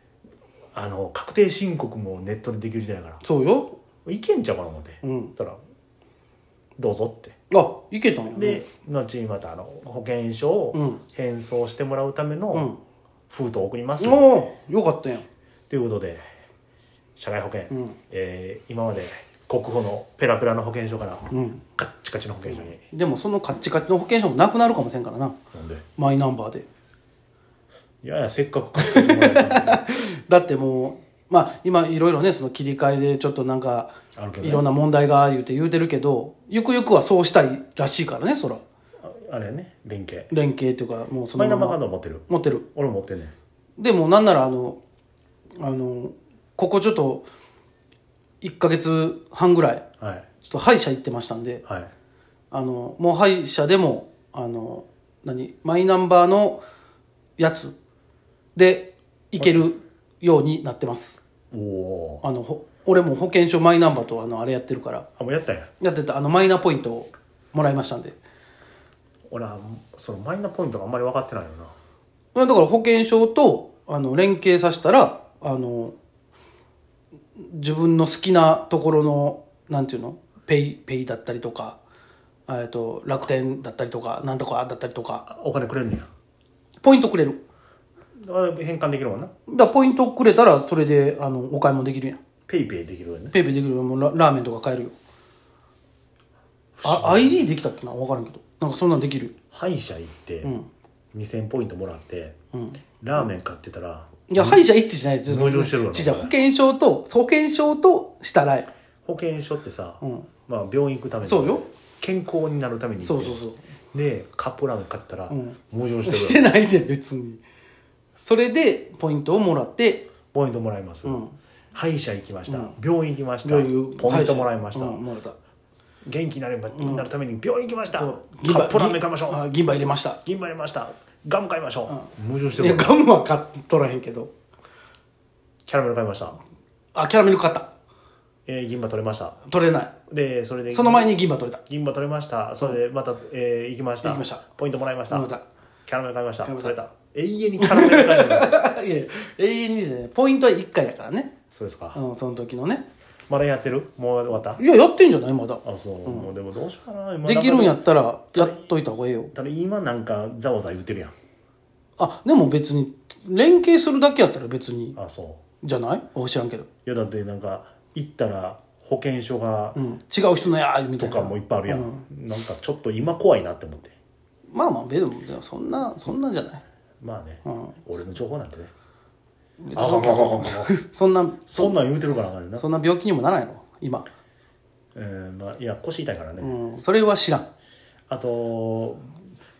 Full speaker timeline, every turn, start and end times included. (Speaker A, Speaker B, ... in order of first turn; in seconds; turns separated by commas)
Speaker A: 0.7-3.2, Speaker B: 3.2-3.8, Speaker A: 4.0-5.6, Speaker B: 5.0-5.3, Speaker A: 6.8-7.3, Speaker B: 7.5-8.6, Speaker A: 8.3-12.7, Speaker B: 10.7-11.0, Speaker B: 12.5-12.8, Speaker A: 13.3-14.3, Speaker B: 14.0-15.2, Speaker A: 15.7-16.2, Speaker A: 17.2-22.8, Speaker B: 17.7-17.9, Speaker B: 21.3-21.6, Speaker B: 22.9-25.4, Speaker A: 25.5-25.8, Speaker B: 26.0-26.6, Speaker A: 28.0-29.9, Speaker B: 28.8-38.6, Speaker A: 34.1-34.7, Speaker A: 39.0-40.3, Speaker B: 40.3-42.6, Speaker A: 41.4-43.3, Speaker B: 43.8-44.8, Speaker B: 45.6-47.3, Speaker B: 48.4-49.9, Speaker A: 50.0-50.3, Speaker B: 50.4-51.6, Speaker A: 51.6-51.9, Speaker B: 52.5-56.6, Speaker B: 57.4-57.7, Speaker B: 58.5-61.2, Speaker A: 61.5-62.2, Speaker B: 62.2-65.1, Speaker A: 65.2-65.7, Speaker B: 65.8-68.2, Speaker A: 69.3-71.7, Speaker B: 72.3-76.0, Speaker B: 77.3-81.8, Speaker B: 82.5-85.3, Speaker A: 85.3-86.1, Speaker B: 86.8-87.4, Speaker A: 88.2-89.3, Speaker B: 89.5-92.2, Speaker A: 92.5-93.4, Speaker B: 93.3-94.9, Speaker A: 96.8-97.5, Speaker B: 96.8-99.3, Speaker A: 99.5-100.5, Speaker A: 101.1-102.3, Speaker B: 102.5-102.8, Speaker A: 103.0-104.7, Speaker B: 104.3-108.7, Speaker A: 105.3-106.3, Speaker A: 109.0-113.4, Speaker B: 110.0-110.3, Speaker B: 111.2-111.7, Speaker B: 113.0-113.6, Speaker A: 113.9-116.5, Speaker B: 115.3-117.4, Speaker B: 118.2-120.1, Speaker A: 120.3-121.2, Speaker B: 121.0-121.3, Speaker A: 121.7-125.0, Speaker B: 122.5-122.8, Speaker B: 123.4-125.4, Speaker A: 126.0-129.4, Speaker B: 126.7-127.0, Speaker B: 127.9-130.2, Speaker A: 130.2-132.9, Speaker B: 131.9-134.3, Speaker A: 135.7-136.4, Speaker B: 136.9-137.7, Speaker A: 138.4-139.4, Speaker B: 139.5-139.9, Speaker A: 140.1-145.3, Speaker B: 140.7-141.6, Speaker B: 144.0-144.4, Speaker B: 145.1-145.4, Speaker A: 145.9-148.6, Speaker B: 146.4-146.7, Speaker B: 147.6-151.3, Speaker A: 151.5-152.0, Speaker B: 151.9-152.9, Speaker A: 153.3-154.6, Speaker B: 154.6-156.3, Speaker A: 155.6-158.7, Speaker B: 157.2-159.3, Speaker A: 159.3-161.1, Speaker B: 162.0-165.0, Speaker A: 164.9-165.4, Speaker B: 165.6-166.7, Speaker A: 166.8-169.8, Speaker B: 169.7-172.1, Speaker A: 171.0-173.9, Speaker B: 174.5-176.6, Speaker A: 177.0-178.7, Speaker B: 177.4-177.8, Speaker B: 179.6-181.8, Speaker A: 179.7-180.8, Speaker A: 181.4-182.7, Speaker B: 182.6-184.1, Speaker A: 184.9-186.5, Speaker B: 186.4-187.5, Speaker A: 188.1-189.2